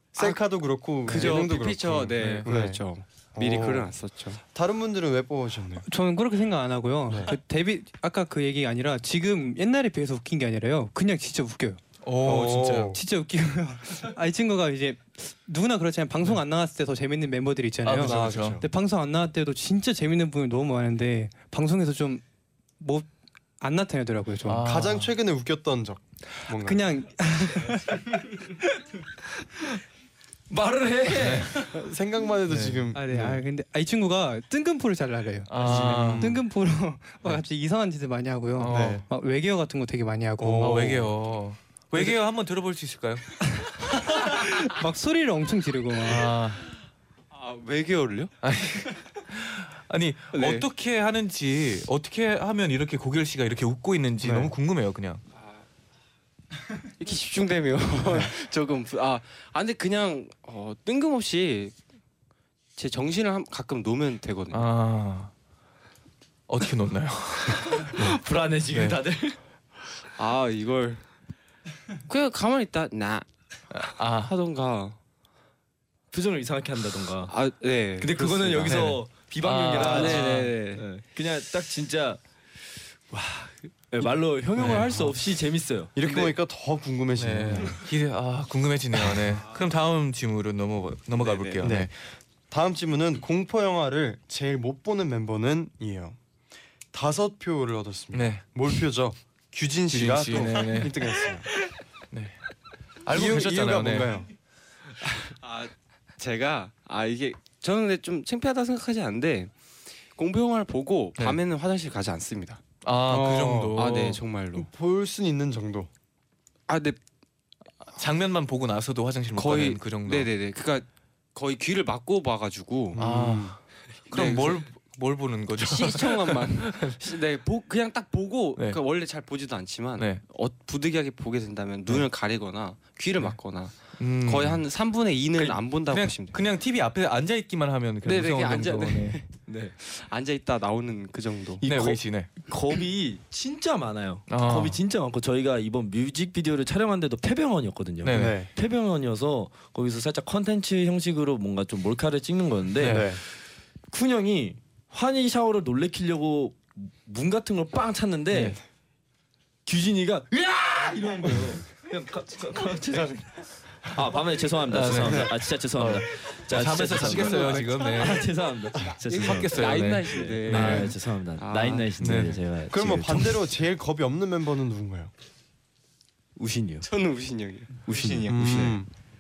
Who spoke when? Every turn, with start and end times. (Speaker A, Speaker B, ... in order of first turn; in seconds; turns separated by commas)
Speaker A: 0.1-2.8, Speaker B: 1.0-4.4, Speaker C: 1.1-1.4, Speaker C: 2.2-2.5, Speaker A: 3.3-3.9, Speaker A: 4.5-5.8, Speaker D: 5.8-11.8, Speaker A: 7.1-7.3, Speaker C: 12.0-13.0, Speaker A: 12.2-13.0, Speaker D: 12.9-22.2, Speaker C: 17.8-18.6, Speaker A: 18.0-18.6, Speaker D: 22.8-23.1, Speaker D: 23.6-24.7, Speaker C: 24.4-25.1, Speaker A: 24.6-26.8, Speaker D: 26.5-28.5, Speaker E: 30.5-31.7, Speaker C: 31.1-31.7, Speaker A: 31.7-33.4, Speaker C: 32.5-32.9, Speaker D: 32.9-40.9, Speaker C: 35.5-36.4, Speaker A: 35.6-36.4, Speaker C: 38.6-39.0, Speaker A: 38.7-39.0, Speaker A: 40.4-41.2, Speaker C: 40.6-43.2, Speaker D: 43.6-46.3, Speaker C: 46.1-46.7, Speaker B: 47.3-48.3, Speaker C: 48.4-55.2, Speaker B: 50.3-50.7, Speaker A: 54.2-54.5, Speaker B: 55.4-55.6, Speaker B: 57.0-61.8, Speaker B: 62.8-64.7, Speaker C: 64.5-65.3, Speaker C: 66.5-68.2, Speaker E: 67.7-69.4, Speaker C: 68.7-69.0, Speaker B: 70.2-71.0, Speaker B: 72.1-73.3, Speaker C: 73.7-74.3, Speaker B: 74.2-75.0, Speaker E: 76.1-77.4, Speaker B: 77.3-79.0, Speaker E: 78.0-82.2, Speaker C: 78.7-80.6, Speaker B: 79.7-80.8, Speaker E: 83.1-86.2, Speaker C: 84.6-85.2, Speaker A: 86.0-87.8, Speaker C: 87.2-91.9, Speaker B: 91.2-91.6, Speaker A: 91.6-92.0, Speaker A: 92.5-96.2, Speaker A: 96.9-101.5, Speaker C: 98.1-98.7, Speaker C: 99.9-101.3, Speaker C: 102.1-102.4, Speaker C: 103.0-104.2, Speaker A: 103.1-104.3, Speaker B: 105.0-109.6, Speaker B: 110.2-112.6, Speaker C: 112.8-114.2, Speaker A: 113.1-114.0, Speaker B: 113.8-114.7, Speaker A: 114.5-115.9, Speaker B: 116.7-117.0, Speaker C: 117.9-120.3, Speaker B: 119.3-123.0, Speaker A: 122.9-123.6, Speaker C: 123.0-127.0, Speaker B: 124.1-124.7, Speaker B: 125.5-136.4, Speaker C: 130.0-130.2, Speaker C: 134.0-134.6, Speaker C: 135.4-139.2, Speaker B: 138.0-142.0, Speaker E: 139.5-139.8, Speaker C: 141.6-142.3, Speaker E: 142.4-153.3, Speaker C: 144.3-144.8, Speaker C: 148.0-148.4, Speaker A: 148.1-148.5, Speaker C: 152.8-153.1, Speaker A: 152.8-153.2, Speaker E: 153.9-158.6, Speaker C: 158.3-158.6, Speaker E: 159.7-173.5, Speaker C: 164.7-168.4, Speaker A: 164.9-165.3, Speaker B: 167.2-168.1, Speaker B: 169.0-172.0, Speaker C: 169.1-170.9, Speaker C: 172.0-172.5, Speaker A: 172.7-175.1, Speaker E: 176.4-176.9, Speaker B: 176.8-178.7, Speaker E: 177.9-178.8, Speaker A: 178.3-178.9